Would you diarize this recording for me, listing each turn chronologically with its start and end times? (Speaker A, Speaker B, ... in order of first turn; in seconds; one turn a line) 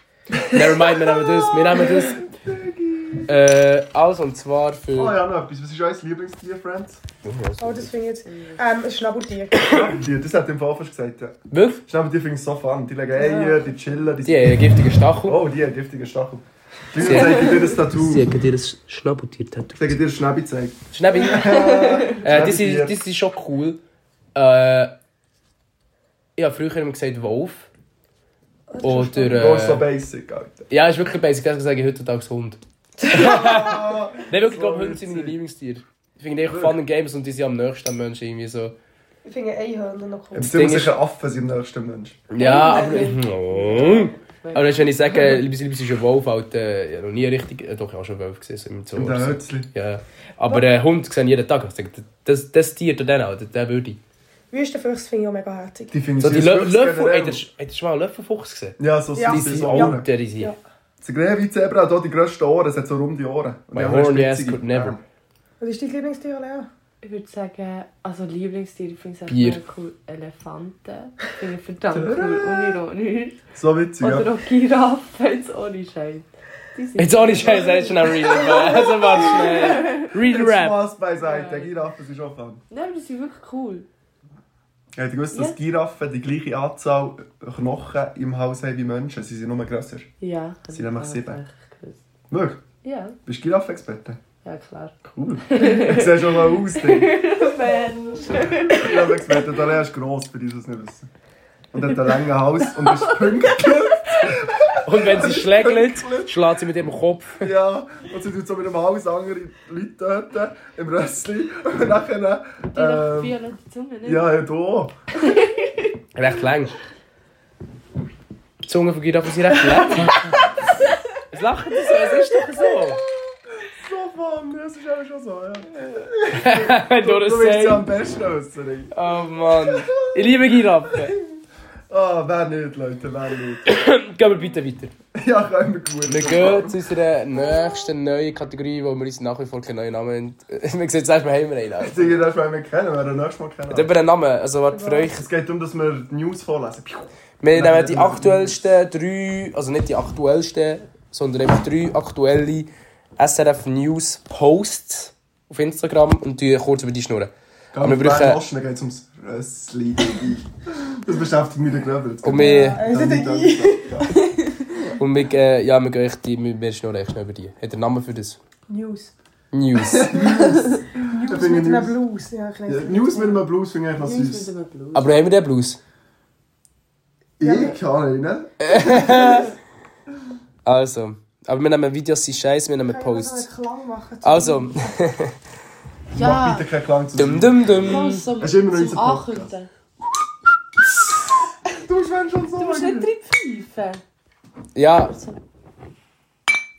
Speaker A: 0.3-3.3
Speaker B: 0.5-2.2
Speaker B: 3.3-5.2
Speaker A: 4.9-7.0
Speaker B: 7.2-7.9
Speaker C: 7.6-9.8
Speaker D: 8.2-8.6
Speaker B: 9.6-9.9
Speaker A: 9.7-14.7
Speaker B: 11.5-11.8
Speaker C: 13.2-13.6
Speaker B: 14.3-15.4
Speaker A: 15.2-18.3
Speaker B: 17.0-19.9
Speaker A: 19.8-23.0
Speaker B: 20.9-23.8
Speaker D: 21.5-21.9
Speaker B: 24.4-24.9
Speaker B: 26.4-27.7
Speaker C: 28.7-29.5
Speaker B: 28.8-29.9
Speaker A: 29.3-30.7
Speaker B: 30.7-38.8
Speaker C: 33.0-33.5
Speaker A: 33.1-35.4
Speaker A: 36.5-36.8
Speaker C: 39.2-40.4
Speaker A: 40.3-42.2
Speaker B: 40.4-41.0
Speaker B: 42.3-54.0
Speaker D: 42.4-45.3
Speaker C: 42.5-43.1
Speaker A: 49.0-49.7
Speaker C: 54.5-55.9
Speaker A: 55.9-57.4
Speaker B: 56.2-60.5
Speaker A: 58.8-60.1
Speaker C: 59.2-60.6
Speaker A: 61.0-65.0
Speaker B: 63.7-65.0
Speaker C: 65.6-66.7
Speaker D: 67.0-73.4
Speaker B: 69.3-69.6
Speaker A: 71.9-72.8
Speaker A: 73.5-74.3
Speaker D: 74.0-80.1
Speaker B: 77.0-80.8
Speaker C: 78.4-78.7
Speaker A: 80.2-82.6
Speaker D: 81.2-81.7
Speaker D: 82.7-83.9
Speaker A: 85.0-90.1
Speaker D: 85.3-85.6
Speaker D: 90.2-92.0
Speaker A: 90.7-91.4
Speaker A: 92.3-92.6
Speaker D: 92.8-93.2
Speaker A: 93.3-94.2
Speaker D: 94.4-95.0
Speaker A: 95.0-97.3
Speaker D: 95.5-99.5
Speaker A: 98.3-101.1
Speaker A: 101.7-106.5
Speaker B: 104.8-107.5
Speaker A: 107.4-113.4
Speaker D: 112.7-114.3
Speaker A: 114.0-114.9
Speaker D: 115.3-115.9
Speaker B: 116.2-116.8
Speaker B: 118.7-120.4
Speaker B: 121.3-123.0
Speaker A: 122.7-128.9
Speaker B: 126.3-127.9
Speaker B: 128.9-131.2
Speaker A: 129.5-133.7
Speaker B: 133.7-134.9
Speaker A: 135.2-136.8
Speaker B: 136.1-142.2
Speaker A: 141.8-143.9
Speaker B: 143.7-145.3
Speaker C: 144.7-145.1
Speaker A: 145.1-148.6
Speaker B: 147.4-158.4
Speaker A: 157.7-164.2
Speaker B: 162.2-162.8
Speaker C: 162.3-164.3
Speaker B: 165.0-168.4
Speaker C: 168.7-169.1
Speaker B: 169.5-170.3
Speaker A: 169.8-171.9
Speaker C: 171.0-173.4
Speaker A: 172.7-174.5
Speaker D: 174.0-175.1
Speaker B: 174.9-175.8
Speaker A: 177.4-179.5
Speaker C: 177.4-177.8
Speaker B: 178.6-179.6
Speaker B: 180.7-183.5
Speaker C: 182.9-184.9
Speaker B: 184.2-185.3
Speaker A: 186.1-189.5
Speaker D: 186.1-186.7
Speaker B: 187.2-188.2
Speaker D: 187.9-189.7
Speaker A: 191.7-193.1
Speaker D: 192.6-194.0
Speaker B: 194.8-195.1
Speaker D: 195.0-195.4